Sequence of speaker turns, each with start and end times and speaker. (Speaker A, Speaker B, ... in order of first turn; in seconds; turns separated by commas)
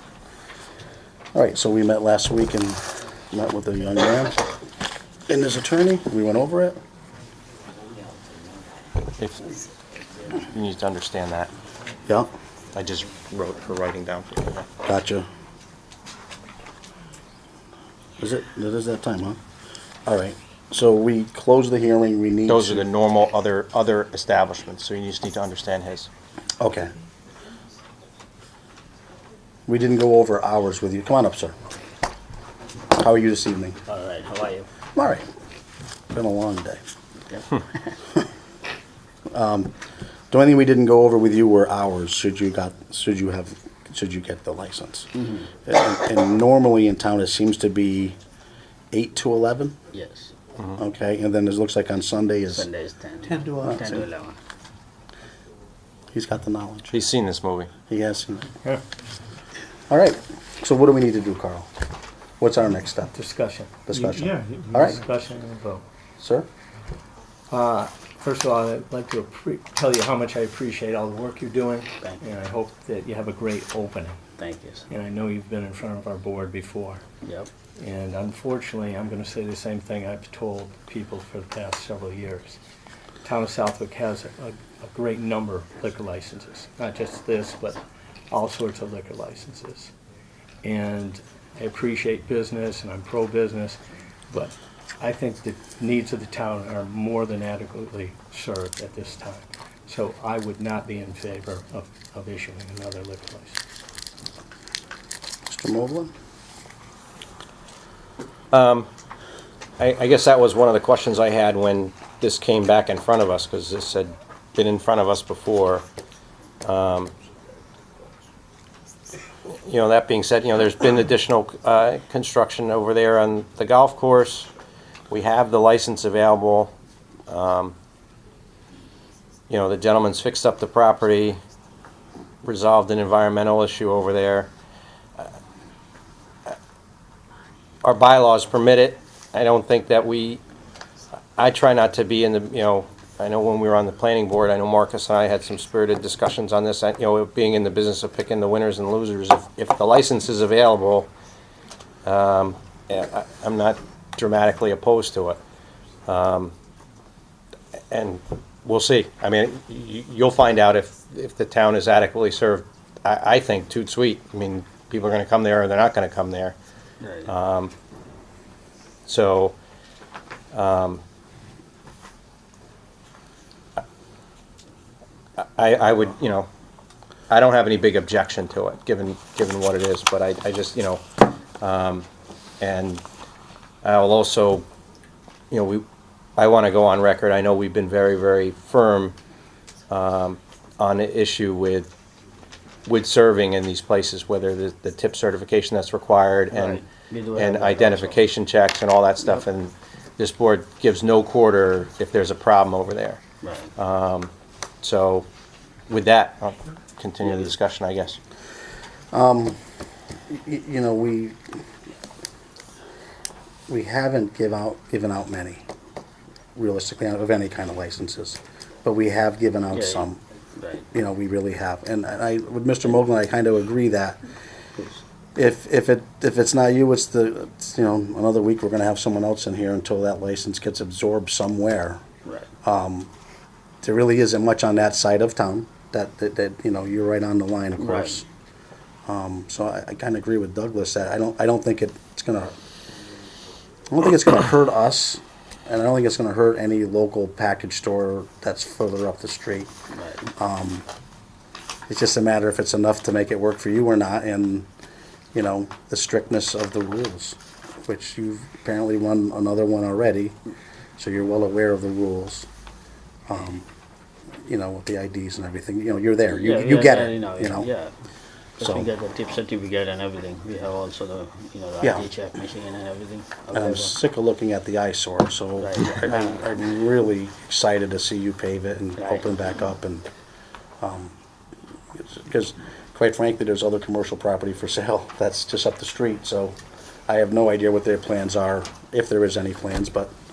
Speaker A: 1.3-4.4, Speaker A: 5.3-6.8, Speaker B: 9.2-9.5, Speaker B: 10.4-11.5, Speaker B: 12.7-14.7, Speaker A: 14.8-15.3, Speaker A: 18.2-19.4, Speaker A: 20.1-22.9, Speaker B: 22.5-26.1, Speaker A: 26.6-26.9, Speaker A: 29.7-31.6, Speaker A: 32.9-33.8, Speaker C: 33.9-34.7, Speaker A: 34.9-35.3, Speaker A: 36.1-36.8, Speaker C: 37.3-37.9, Speaker A: 39.3-39.7, Speaker A: 40.3-48.2, Speaker C: 45.1-45.5, Speaker A: 48.9-49.8, Speaker C: 49.9-50.3, Speaker A: 50.8-52.7, Speaker C: 52.5-54.4, Speaker A: 53.3-54.0, Speaker A: 56.1-57.0, Speaker B: 56.9-57.7, Speaker A: 57.9-58.5, Speaker A: 59.9-61.7, Speaker A: 62.4-63.1, Speaker D: 63.1-65.8, Speaker A: 63.9-65.0, Speaker A: 66.2-66.5, Speaker D: 67.5-74.2, Speaker C: 74.4-74.8, Speaker D: 74.9-77.0, Speaker C: 77.2-77.5, Speaker D: 77.8-82.6, Speaker D: 83.2-89.9, Speaker D: 90.6-93.8, Speaker D: 94.3-103.6, Speaker A: 105.5-106.1, Speaker B: 108.5-108.9, Speaker B: 109.8-115.8, Speaker B: 116.6-117.1, Speaker B: 119.5-124.5, Speaker B: 125.1-126.7, Speaker B: 127.3-127.7, Speaker B: 129.5-131.4, Speaker B: 132.4-134.5, Speaker B: 137.8-140.4, Speaker B: 141.4-151.1, Speaker B: 152.0-155.4, Speaker B: 156.1-156.5, Speaker B: 157.9-166.6, Speaker C: 167.0-167.3, Speaker B: 167.2-167.7, Speaker B: 169.1-169.6, Speaker B: 170.5-171.0, Speaker B: 175.4-176.5, Speaker B: 177.3-182.1, Speaker B: 182.6-183.0, Speaker B: 183.8-184.7, Speaker B: 185.5-185.8, Speaker B: 186.4-189.2, Speaker B: 189.9-191.9, Speaker B: 192.8-196.8, Speaker C: 196.5-198.2, Speaker B: 197.3-203.2, Speaker C: 203.4-203.7, Speaker B: 203.8-204.3, Speaker B: 204.8-205.3, Speaker B: 205.9-208.2, Speaker A: 209.1-209.6, Speaker A: 210.3-211.4, Speaker A: 213.7-215.6, Speaker A: 216.5-220.2, Speaker C: 219.7-220.1, Speaker C: 220.6-220.9, Speaker A: 220.9-224.2, Speaker A: 225.3-232.0, Speaker A: 232.6-233.1, Speaker A: 233.8-238.2, Speaker C: 237.8-238.1, Speaker A: 239.1-242.6, Speaker A: 243.9-249.7, Speaker C: 249.9-250.3, Speaker A: 250.3-250.8, Speaker A: 251.9-254.7, Speaker A: 255.3-260.4, Speaker A: 261.0-262.5, Speaker A: 263.3-263.6, Speaker A: 264.4-267.7, Speaker C: 266.3-267.9, Speaker A: 268.6-268.9, Speaker C: 268.6-273.9, Speaker A: 271.8-272.1, Speaker A: 273.5-280.1, Speaker C: 275.6-276.5, Speaker C: 279.0-279.3, Speaker A: 280.8-281.1, Speaker A: 282.0-286.6, Speaker A: 287.1-290.1